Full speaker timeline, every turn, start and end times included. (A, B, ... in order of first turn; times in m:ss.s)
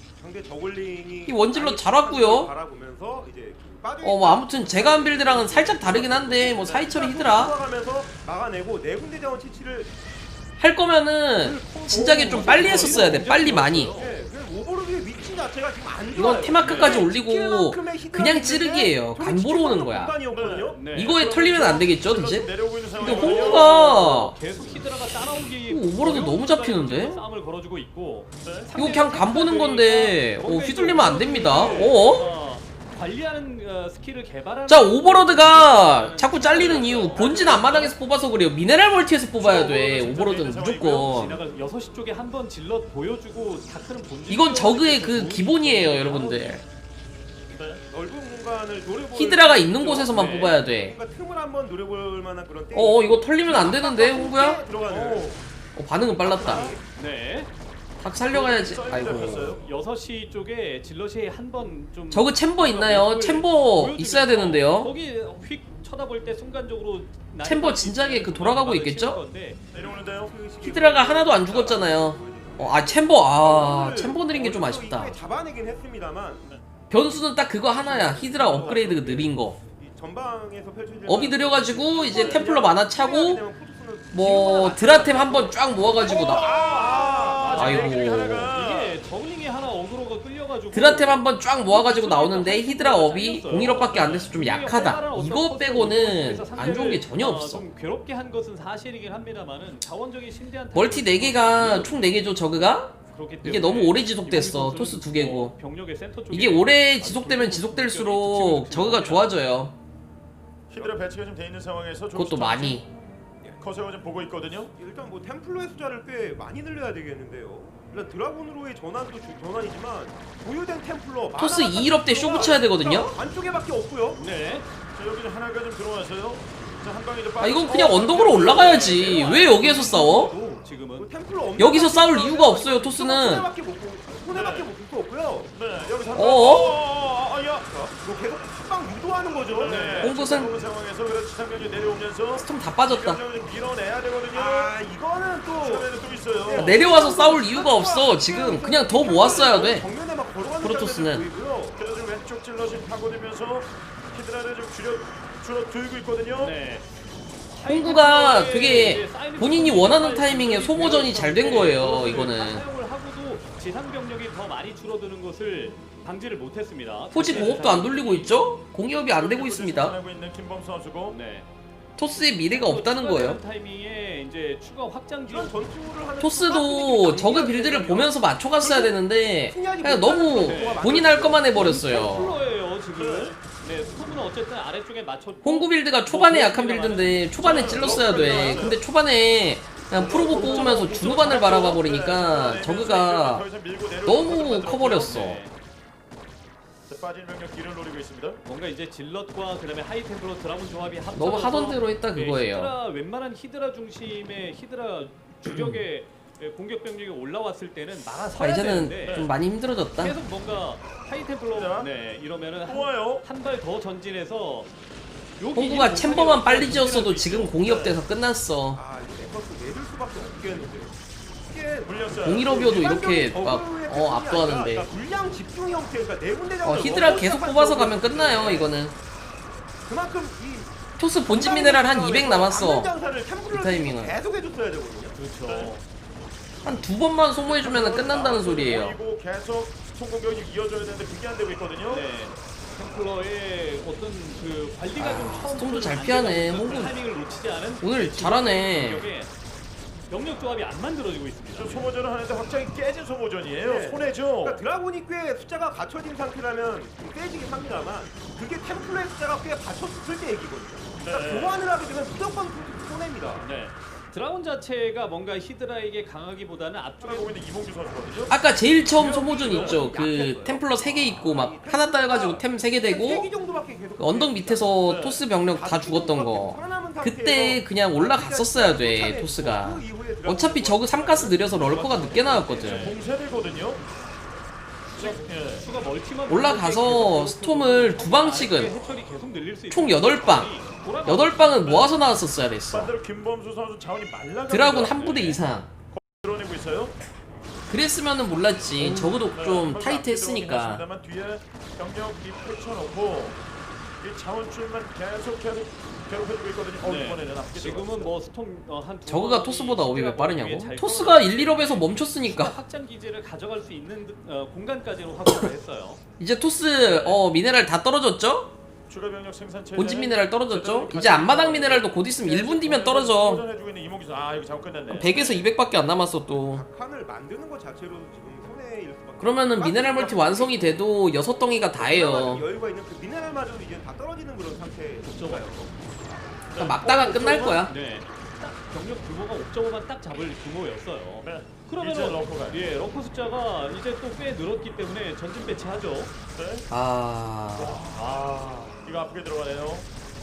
0:00.2-0:09.9 A
0:01.3-0:02.5 B
0:04.0-0:07.5 B
0:10.6-0:13.9 B
0:11.4-0:13.3 A
0:11.8-0:14.2 C
0:14.0-0:20.8 A
0:16.1-0:20.2 B
0:16.6-0:17.1 C
0:20.3-0:23.9 D
0:20.7-0:21.2 C
0:21.0-0:24.4 B
0:23.0-0:38.0 C
0:25.7-0:27.2 B
0:28.4-0:28.7 D
0:28.8-0:32.3 B
0:34.7-0:41.4 B
0:36.6-0:37.4 D
0:39.4-0:41.2 D
0:41.0-0:46.6 C
0:44.3-0:46.6 B
0:47.5-0:47.8 D
0:47.8-0:55.4 A
0:49.1-0:51.0 B
0:50.1-0:50.6 C
0:52.7-0:54.6 B
0:54.8-0:55.4 C
0:55.8-0:56.7 B
0:56.0-0:56.8 A
0:56.4-0:57.5 C
0:58.0-0:59.6 B
0:58.3-0:59.6 D
0:59.6-1:09.6 C
1:02.1-1:04.9 B
1:07.4-1:09.2 B
1:09.7-1:10.4 D
1:09.8-1:16.5 A
1:10.6-1:15.2 B
1:16.9-1:19.6 B
1:17.7-1:28.0 A
1:18.5-1:18.9 D
1:21.1-1:23.4 B
1:22.1-1:22.5 D
1:24.1-1:26.6 B
1:26.0-1:29.0 D
1:27.4-1:49.3 C
1:27.6-1:28.5 B
1:30.7-1:37.6 B
1:40.7-1:45.6 B
1:46.3-1:49.7 B
1:50.7-1:52.8 D
1:52.2-1:52.8 B
1:53.6-1:54.7 D
1:54.5-2:04.2 A
2:01.4-2:03.1 B
2:04.1-2:04.7 C
2:04.9-2:09.4 D
2:07.4-2:10.3 B
2:08.4-2:11.1 C
2:11.0-2:15.5 A
2:11.6-2:13.5 B
2:14.3-2:14.7 D
2:15.5-2:17.7 D
2:16.1-2:16.8 B
2:17.7-2:19.9 A
2:19.4-2:24.8 D
2:19.6-2:20.1 C
2:20.0-2:20.5 B
2:22.3-2:23.2 B
2:24.3-2:31.8 A
2:25.6-2:26.8 D
2:26.6-2:29.9 B
2:30.6-2:31.2 B
2:31.8-2:36.6 D
2:36.4-2:36.9 C
2:37.5-2:48.3 C
2:37.6-2:42.6 B
2:47.1-2:50.0 B
2:49.1-2:51.2 D
2:51.1-2:51.5 C
2:52.0-2:53.4 B
2:52.5-2:55.6 C
2:55.3-3:01.5 A
2:56.2-3:02.4 B
3:00.4-3:00.9 C
3:01.5-3:08.7 C
3:03.0-3:03.4 D
3:05.4-3:13.5 B
3:07.4-3:08.8 D
3:10.0-3:15.2 D
3:10.4-3:10.7 C
3:14.0-3:15.4 B
3:14.8-3:15.5 C
3:16.9-3:18.4 D
3:18.4-3:29.3 C
3:21.1-3:22.8 B
3:25.5-3:25.8 B
3:28.4-3:30.2 B
3:29.0-3:29.3 D
3:30.0-3:34.7 C
3:31.5-3:31.9 D
3:32.6-3:33.2 D
3:35.4-3:37.6 C
3:35.6-3:38.8 B
3:37.6-3:38.0 D
3:38.7-3:48.8 A
3:41.8-3:42.6 D
3:42.2-3:44.9 B
3:46.6-3:48.9 B
3:49.9-3:55.2 A
3:51.0-3:52.9 B
3:53.5-3:54.2 B
3:55.2-3:55.8 C
3:55.4-3:55.8 D
3:56.6-3:59.0 B
3:57.5-4:02.0 D
4:01.9-4:09.3 C
4:05.0-4:06.9 B
4:07.8-4:09.1 B
4:10.1-4:11.9 C
4:11.5-4:14.6 D
4:13.6-4:23.5 A
4:21.0-4:21.6 D
4:23.4-4:27.4 C
4:27.0-4:28.4 D
4:28.3-4:33.3 B
4:29.0-4:34.8 A
4:29.4-4:29.8 D
4:34.0-4:42.9 B
4:34.8-4:35.2 D
4:35.5-4:42.0 A
4:41.6-4:43.0 C
4:42.6-4:43.8 D
4:44.9-4:45.7 D
4:45.0-4:52.0 C
4:46.3-4:48.7 B
4:49.7-4:50.5 B
4:51.0-4:52.9 B
4:52.7-4:57.0 D
4:54.5-4:55.7 B
4:57.7-5:00.8 B
4:58.8-5:03.4 D
5:04.0-5:08.2 D
5:06.8-5:16.0 C
5:09.1-5:12.6 B
5:16.2-5:18.5 B
5:16.8-5:17.2 C
5:18.9-5:25.4 D
5:19.8-5:23.4 B
5:24.9-5:26.6 B
5:26.4-5:30.8 A
5:29.2-5:32.4 B
5:31.8-5:35.7 A
5:35.0-5:35.6 C
5:36.5-5:37.6 D
5:36.6-5:37.7 B
5:37.6-5:46.1 C
5:41.2-5:42.6 D
5:46.3-5:46.7 D
5:46.7-5:47.8 B
5:47.6-5:48.2 D
5:47.9-5:48.8 C
5:48.8-5:49.9 D